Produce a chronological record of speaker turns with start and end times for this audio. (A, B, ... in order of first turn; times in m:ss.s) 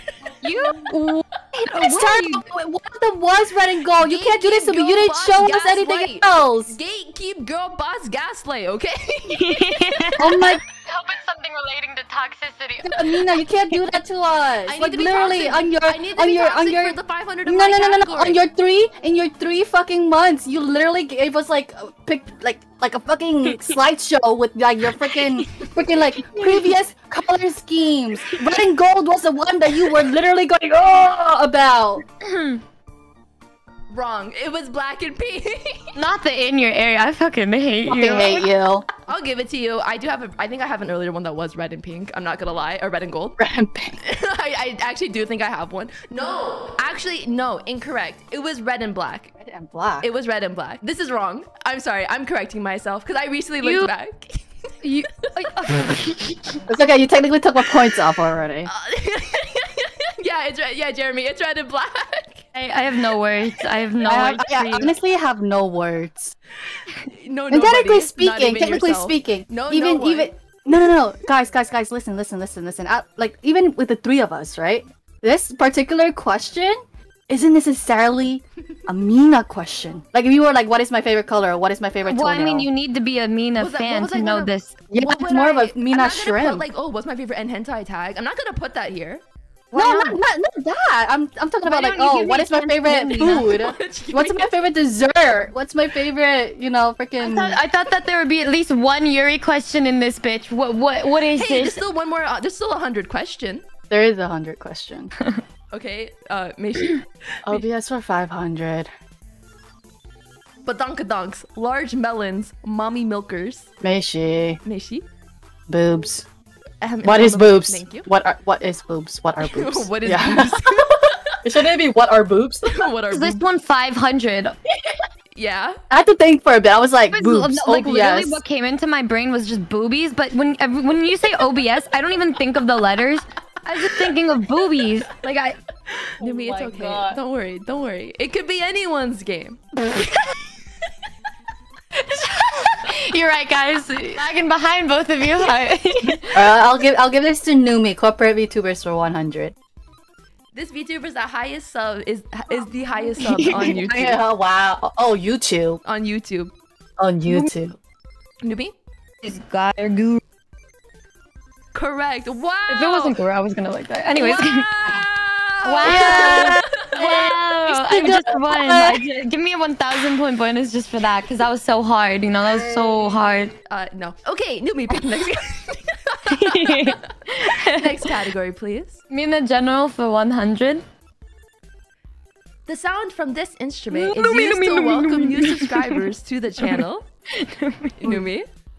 0:00.4-0:02.4 A
0:01.7-0:06.7 B
0:04.0-0:09.7 C
0:09.3-0:13.9 A
0:10.2-0:10.6 B
0:12.8-0:32.0 B
0:14.7-0:18.4 C
0:24.9-0:26.7 A
0:28.3-0:28.6 A
0:32.2-0:32.6 A
0:33.9-0:36.0 C
0:36.0-0:38.5 A
0:37.9-0:38.9 B
0:39.1-0:43.4 C
0:43.4-0:44.0 B
0:44.0-0:49.3 C
0:49.4-0:50.1 B
0:50.0-0:54.4 C
0:53.6-0:53.9 A
0:54.8-0:56.6 A
0:56.7-0:58.7 B
0:58.7-1:02.5 C
1:02.5-1:04.9 A
1:04.1-1:06.4 B
1:06.8-1:10.3 C
1:07.5-1:22.7 B
1:22.1-1:24.8 A
1:23.6-1:29.2 C
1:24.9-1:26.7 B
1:29.7-1:30.2 A
1:29.7-1:37.6 B
1:31.6-1:33.5 A
1:33.4-1:34.5 C
1:37.2-1:41.8 A
1:41.4-1:43.6 C
1:43.9-1:45.1 B
1:45.7-1:47.6 C
1:47.5-1:48.9 B
1:50.6-1:53.7 C
1:53.8-1:54.6 B
1:54.6-1:55.1 C
1:55.7-1:56.3 B
1:56.8-1:58.1 C
1:57.0-2:00.8 B
1:59.4-2:01.4 C
2:01.4-2:02.8 B
2:02.7-2:03.4 C
2:03.1-2:04.9 A
2:05.4-2:05.8 C
2:05.9-2:08.4 B
2:07.1-2:15.6 A
2:16.2-2:19.7 C
2:16.2-2:17.2 A
2:22.0-2:26.5 A
2:26.3-2:29.5 B
2:30.5-2:34.2 C
2:33.2-2:33.8 A
2:33.6-2:35.8 B
2:35.8-2:36.5 C
2:37.0-2:37.7 B
2:38.4-2:38.8 C
2:39.2-2:40.2 A
2:41.7-2:43.2 C
2:42.7-2:45.0 A
2:44.2-2:47.0 C
2:45.6-2:53.5 A
2:45.8-2:49.0 B
2:52.7-2:53.0 B
2:53.7-2:59.0 C
2:56.3-2:58.1 A
2:59.1-3:00.8 A
3:02.7-3:07.1 C
3:03.9-3:06.0 A
3:07.4-3:08.2 A
3:08.0-3:08.5 C